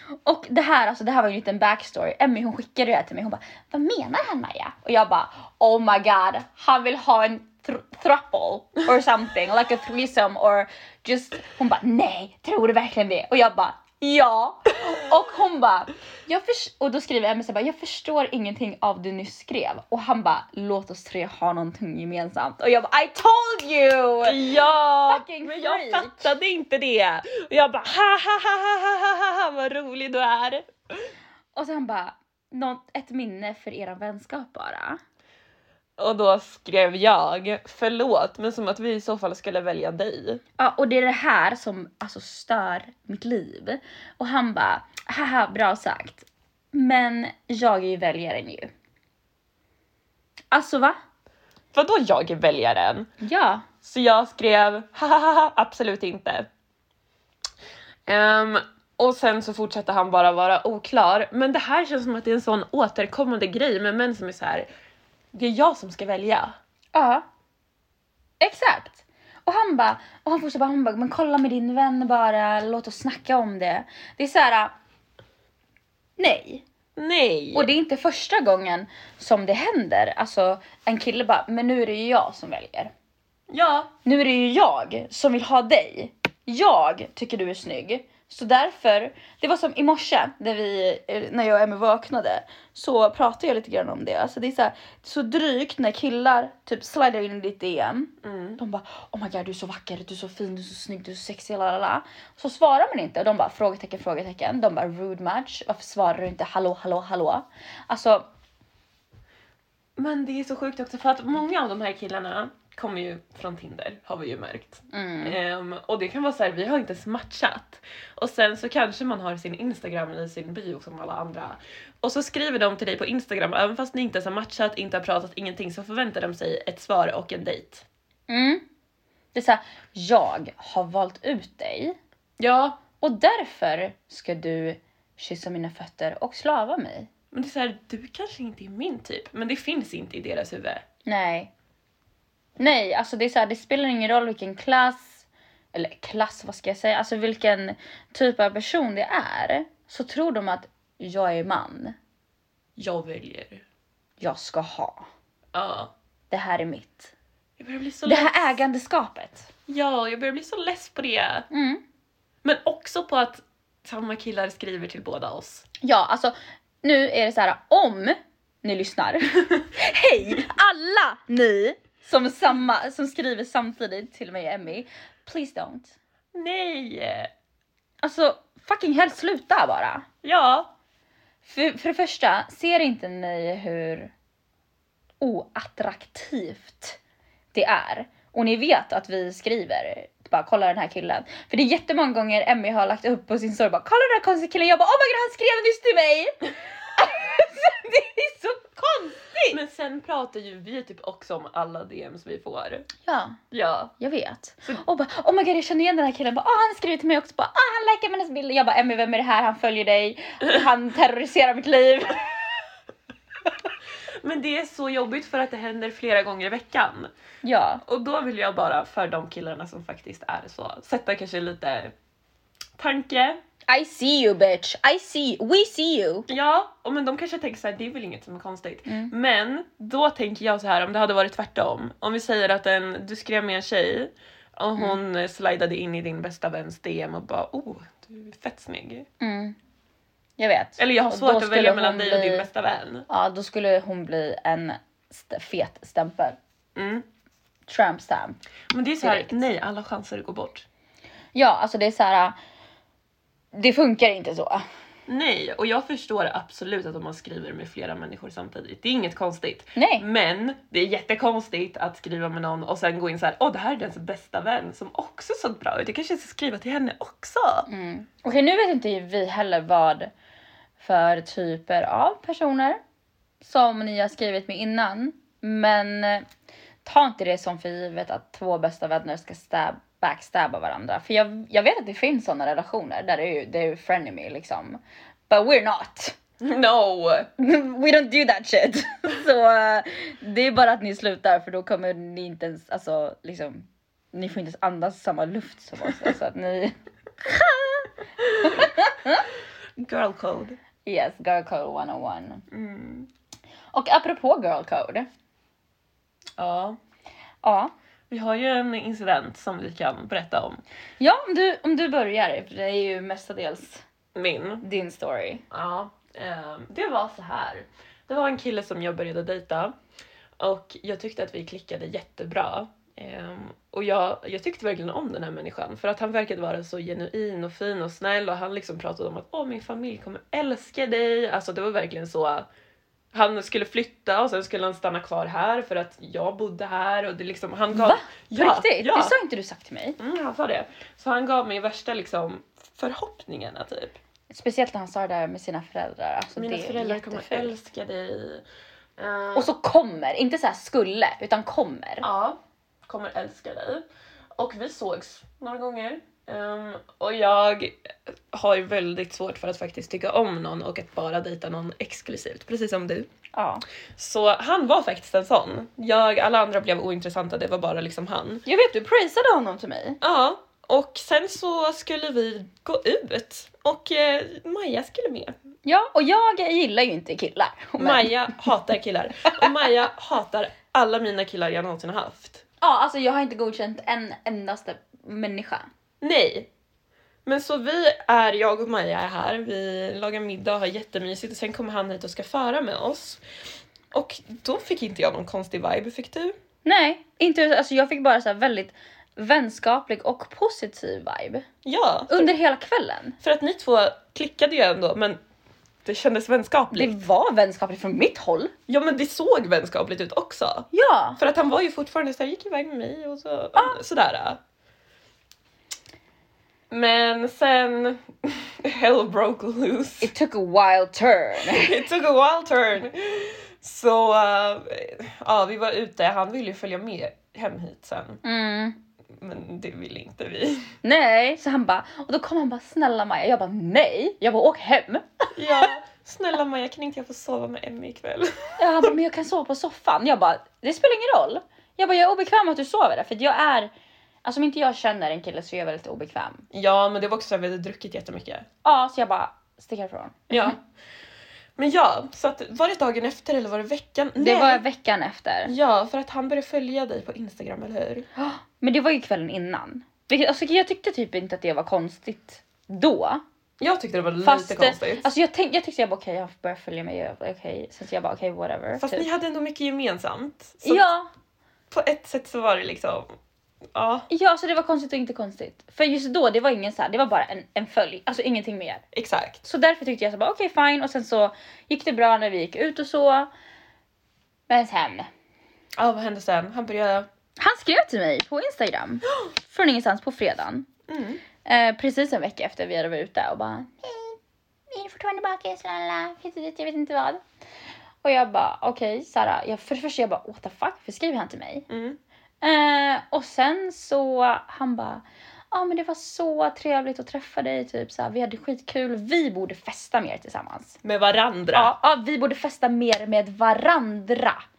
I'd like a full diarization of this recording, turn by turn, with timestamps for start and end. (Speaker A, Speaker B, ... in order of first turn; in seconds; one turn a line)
Speaker A: 0.2-24.5
Speaker B: 24.2-30.7
Speaker A: 25.1-26.3
Speaker A: 31.6-35.0
Speaker B: 36.0-40.4
Speaker A: 40.6-48.7
Speaker A: 50.5-51.0
Speaker B: 51.7-53.1
Speaker A: 53.2-53.7
Speaker B: 53.8-56.5
Speaker B: 58.1-64.7
Speaker B: 65.3-66.6
Speaker A: 66.9-67.2
Speaker A: 68.4-74.7
Speaker A: 76.2-76.6
Speaker B: 77.0-77.7
Speaker A: 77.5-82.9
Speaker B: 83.5-83.9
Speaker A: 84.0-108.3
Speaker B: 98.2-98.6
Speaker B: 110.0-127.8
Speaker A: 114.9-115.4
Speaker A: 128.3-128.6
Speaker A: 129.3-132.0
Speaker B: 132.4-132.8
Speaker A: 133.0-137.1
Speaker B: 137.3-140.8
Speaker A: 141.1-141.5
Speaker A: 142.6-152.0
Speaker B: 152.8-153.6
Speaker A: 154.2-155.1
Speaker B: 155.5-155.9
Speaker A: 156.3-157.1
Speaker B: 157.6-158.6
Speaker A: 158.1-159.5
Speaker B: 159.7-161.5
Speaker A: 161.5-161.8
Speaker B: 162.4-165.7
Speaker A: 165.8-176.0
Speaker B: 176.3-177.3
Speaker A: 178.0-180.1
Speaker B: 180.2-180.7
Speaker A: 181.4-184.1
Speaker A: 185.2-187.0
Speaker A: 187.5-199.6
Speaker B: 199.5-202.9
Speaker A: 203.0-203.4
Speaker B: 203.5-203.9
Speaker A: 204.0-212.3
Speaker B: 214.2-217.1
Speaker A: 217.4-217.8
Speaker B: 217.8-221.9
Speaker B: 222.8-223.4
Speaker A: 223.7-226.3
Speaker B: 226.3-239.1
Speaker A: 228.9-229.1
Speaker A: 239.2-239.6
Speaker A: 240.4-242.5
Speaker B: 240.8-243.1
Speaker A: 243.1-246.4
Speaker B: 246.8-247.1
Speaker A: 247.7-248.4
Speaker B: 248.7-250.7
Speaker A: 249.0-249.4
Speaker A: 251.3-252.4
Speaker A: 253.5-254.6
Speaker B: 255.1-267.7
Speaker A: 259.8-260.1
Speaker A: 267.7-270.1
Speaker A: 270.8-272.8
Speaker A: 273.4-276.3
Speaker A: 276.8-286.2
Speaker B: 286.4-287.3
Speaker A: 287.4-299.3
Speaker B: 299.8-300.6
Speaker A: 300.9-302.4
Speaker B: 302.5-303.1
Speaker A: 303.7-305.1
Speaker B: 306.4-306.8
Speaker A: 307.4-307.7
Speaker B: 308.1-310.6
Speaker A: 311.0-313.8
Speaker B: 314.1-314.6
Speaker A: 314.6-315.4
Speaker B: 315.5-319.7
Speaker B: 320.4-332.5
Speaker B: 333.1-339.1
Speaker A: 337.7-340.0
Speaker B: 340.0-344.0
Speaker A: 344.3-347.6
Speaker B: 346.4-348.4
Speaker B: 349.0-349.5
Speaker A: 349.4-352.1
Speaker B: 352.0-353.9
Speaker B: 354.4-363.1
Speaker A: 363.3-363.6
Speaker B: 364.0-368.4
Speaker A: 368.5-370.0
Speaker B: 370.0-375.3
Speaker A: 375.6-378.4
Speaker B: 377.8-382.4
Speaker A: 382.6-385.7
Speaker B: 386.0-386.5
Speaker B: 387.3-393.2
Speaker B: 393.9-396.4
Speaker A: 396.6-401.5
Speaker B: 401.6-402.3
Speaker A: 402.1-403.2
Speaker B: 403.2-405.2
Speaker B: 405.9-406.9
Speaker A: 406.7-408.5
Speaker B: 408.7-410.7
Speaker A: 410.7-411.2
Speaker B: 411.2-414.4
Speaker B: 416.7-420.1
Speaker A: 420.0-421.8
Speaker B: 421.4-428.2
Speaker A: 428.2-428.8
Speaker B: 429.1-430.7
Speaker A: 430.8-435.7
Speaker B: 435.4-438.9
Speaker A: 438.6-443.7
Speaker A: 444.2-446.5
Speaker B: 446.5-448.5
Speaker A: 448.6-450.6
Speaker B: 450.3-450.6
Speaker B: 451.6-454.6
Speaker A: 454.2-455.5
Speaker B: 455.4-458.1
Speaker A: 458.2-463.2
Speaker B: 463.6-465.1
Speaker A: 464.2-469.1
Speaker B: 468.8-470.9
Speaker A: 470.6-471.1
Speaker B: 471.7-473.1
Speaker B: 473.7-474.1
Speaker A: 474.1-478.8
Speaker B: 478.9-479.4
Speaker A: 479.4-483.3
Speaker A: 484.5-485.1
Speaker B: 485.8-487.1
Speaker A: 487.4-490.7
Speaker B: 490.9-491.2
Speaker A: 491.4-494.2
Speaker A: 494.7-497.2
Speaker A: 498.0-501.7
Speaker B: 501.7-502.0
Speaker A: 502.4-510.8
Speaker B: 510.8-511.7
Speaker A: 511.5-514.4